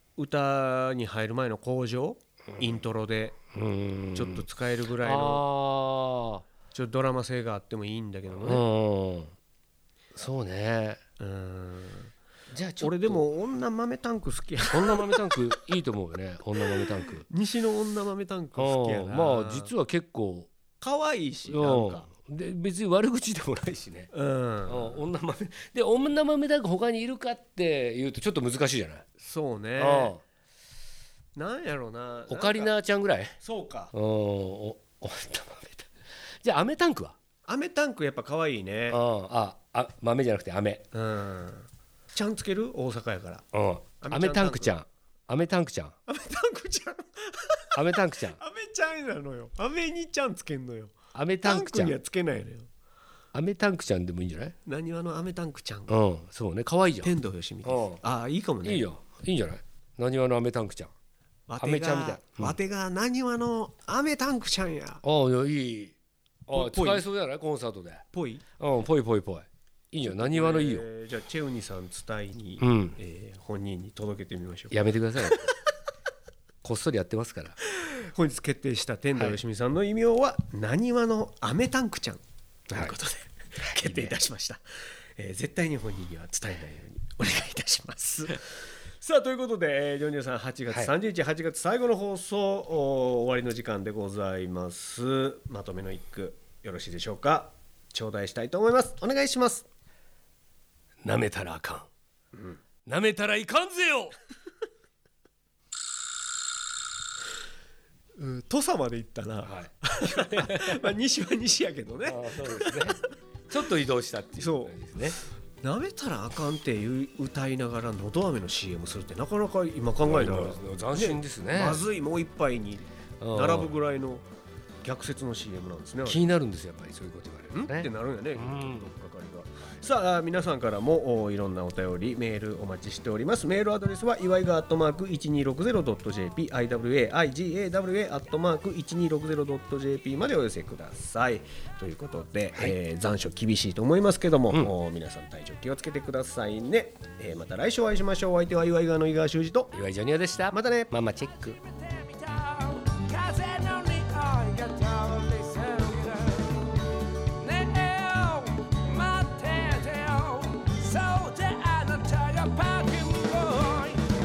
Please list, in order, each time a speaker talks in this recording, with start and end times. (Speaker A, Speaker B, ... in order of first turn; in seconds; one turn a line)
Speaker A: 0.2-3.4
Speaker B: 3.5-4.4
Speaker A: 4.1-5.5
Speaker B: 5.0-6.5
Speaker A: 6.7-8.6
Speaker B: 8.4-9.3
Speaker B: 10.1-11.0
Speaker A: 11.2-12.1
Speaker B: 12.5-13.2
Speaker A: 12.8-15.6
Speaker B: 14.7-17.3
Speaker A: 16.7-19.7
Speaker B: 18.6-20.5
Speaker A: 20.8-22.1
Speaker B: 21.5-24.1
Speaker A: 24.1-25.0
Speaker B: 24.7-29.0
Speaker A: 29.2-30.1
Speaker B: 29.8-30.2
Speaker A: 31.3-32.7
Speaker B: 32.3-33.4
Speaker A: 33.4-33.9
Speaker B: 33.9-35.9
Speaker B: 36.4-37.1
Speaker A: 37.5-39.0
Speaker B: 38.9-40.8
Speaker A: 40.9-43.5
Speaker B: 43.5-45.9
Speaker A: 44.0-44.8
Speaker A: 46.1-52.7
Speaker B: 47.7-48.4
Speaker B: 51.1-52.0
Speaker B: 53.3-54.5
Speaker A: 54.6-55.9
Speaker B: 55.9-58.0
Speaker A: 57.0-58.9
Speaker B: 58.6-60.9
Speaker A: 61.5-65.0
Speaker B: 61.6-62.6
Speaker B: 65.0-65.9
Speaker B: 66.5-68.0
Speaker A: 66.5-67.0
Speaker A: 68.1-68.4
Speaker B: 68.6-70.8
Speaker A: 70.0-75.5
Speaker B: 72.6-73.0
Speaker B: 74.7-75.5
Speaker B: 76.6-77.6
Speaker A: 77.6-84.6
Speaker B: 83.6-84.2
Speaker A: 85.2-99.7
Speaker B: 101.0-101.9
Speaker B: 102.8-104.2
Speaker A: 108.2-113.0
Speaker B: 109.4-110.8
Speaker B: 112.0-115.2
Speaker A: 114.4-124.2
Speaker B: 120.0-121.8
Speaker B: 123.2-123.8
Speaker A: 124.8-126.3
Speaker B: 126.0-128.9
Speaker A: 127.5-149.7
Speaker B: 149.7-156.5
Speaker A: 150.5-150.9
Speaker B: 157.4-163.9